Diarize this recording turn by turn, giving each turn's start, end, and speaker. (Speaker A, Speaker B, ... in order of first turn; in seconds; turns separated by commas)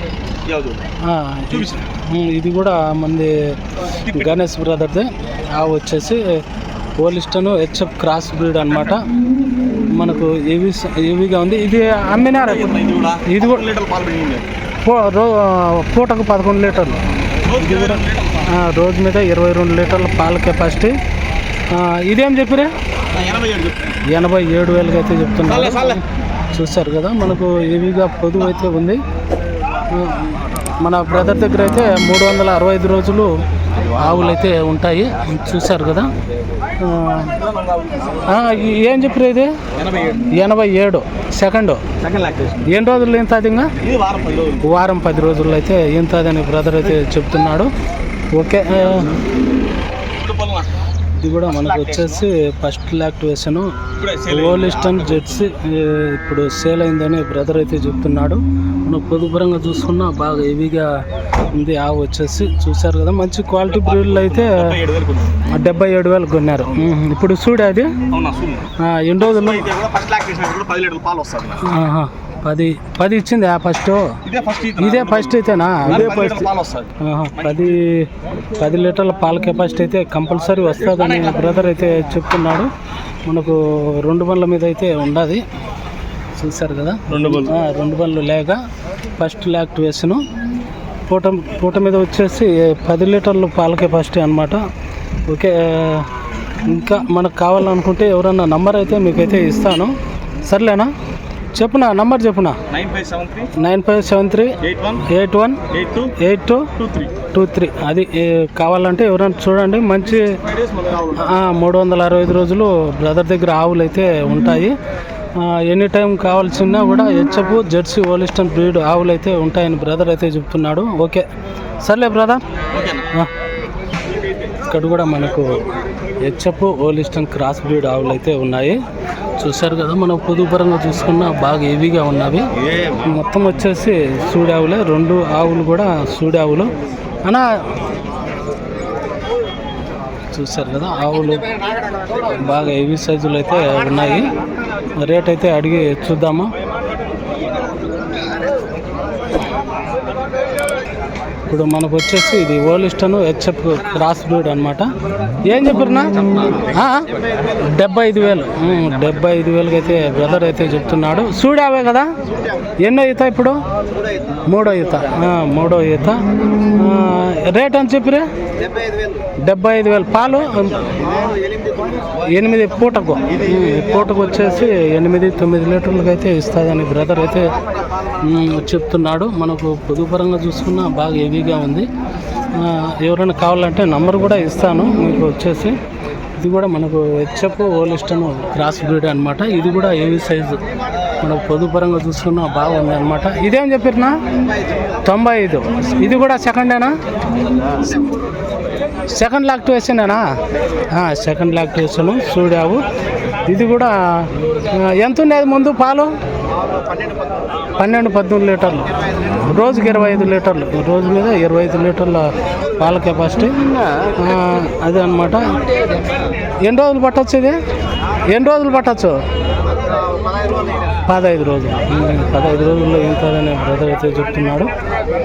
Speaker A: 0.4-0.9, Speaker B: 1.0-6.4, Speaker A: 1.5-1.9, Speaker A: 3.9-4.3, Speaker B: 7.0-9.1, Speaker B: 9.9-13.7, Speaker A: 12.4-14.5, Speaker B: 14.8-20.9, Speaker A: 17.4-18.5, Speaker B: 21.7-22.7, Speaker A: 23.1-24.0, Speaker B: 24.0-29.0, Speaker A: 25.5-26.0, Speaker B: 29.9-36.1, Speaker B: 36.8-37.4, Speaker A: 37.4-38.2, Speaker B: 38.2-39.5, Speaker A: 39.7-40.3, Speaker B: 40.2-41.9, Speaker A: 42.0-42.7, Speaker B: 42.6-43.8, Speaker A: 43.8-44.7, Speaker B: 44.6-47.7, Speaker B: 48.3-49.1, Speaker A: 50.1-50.7, Speaker B: 51.2-64.8, Speaker A: 51.6-52.2, Speaker A: 54.0-55.5, Speaker A: 63.7-65.5, Speaker B: 65.4-68.0, Speaker A: 68.1-71.7, Speaker B: 68.8-69.7, Speaker B: 71.6-74.2, Speaker A: 74.2-77.6, Speaker B: 74.8-82.7, Speaker B: 83.3-85.4, Speaker B: 86.4-88.6, Speaker A: 87.1-87.5, Speaker B: 89.2-90.2, Speaker B: 91.1-94.6, Speaker B: 95.3-96.1, Speaker B: 96.6-100.9, Speaker B: 101.5-102.6, Speaker A: 102.7-103.5, Speaker B: 103.5-110.4, Speaker A: 104.6-105.0, Speaker A: 105.7-106.2, Speaker A: 106.8-107.2, Speaker A: 110.2-111.3, Speaker B: 111.1-114.7, Speaker B: 115.3-121.2, Speaker B: 121.8-122.6, Speaker A: 122.7-123.1, Speaker B: 124.6-125.7, Speaker B: 126.2-128.8, Speaker B: 129.4-137.5, Speaker B: 140.3-141.5, Speaker B: 142.2-144.3, Speaker B: 145.0-146.5, Speaker B: 151.5-154.9, Speaker B: 155.4-162.1, Speaker B: 162.8-163.6, Speaker B: 164.5-168.3, Speaker B: 169.4-171.0, Speaker B: 172.2-177.5, Speaker B: 178.2-181.9, Speaker B: 182.5-185.8, Speaker B: 186.4-190.6, Speaker B: 191.2-194.2, Speaker B: 195.0-196.9, Speaker B: 199.1-200.2, Speaker B: 200.9-202.9, Speaker B: 203.5-206.1, Speaker B: 207.7-215.6, Speaker B: 216.6-217.6, Speaker B: 218.3-219.2, Speaker B: 220.9-224.7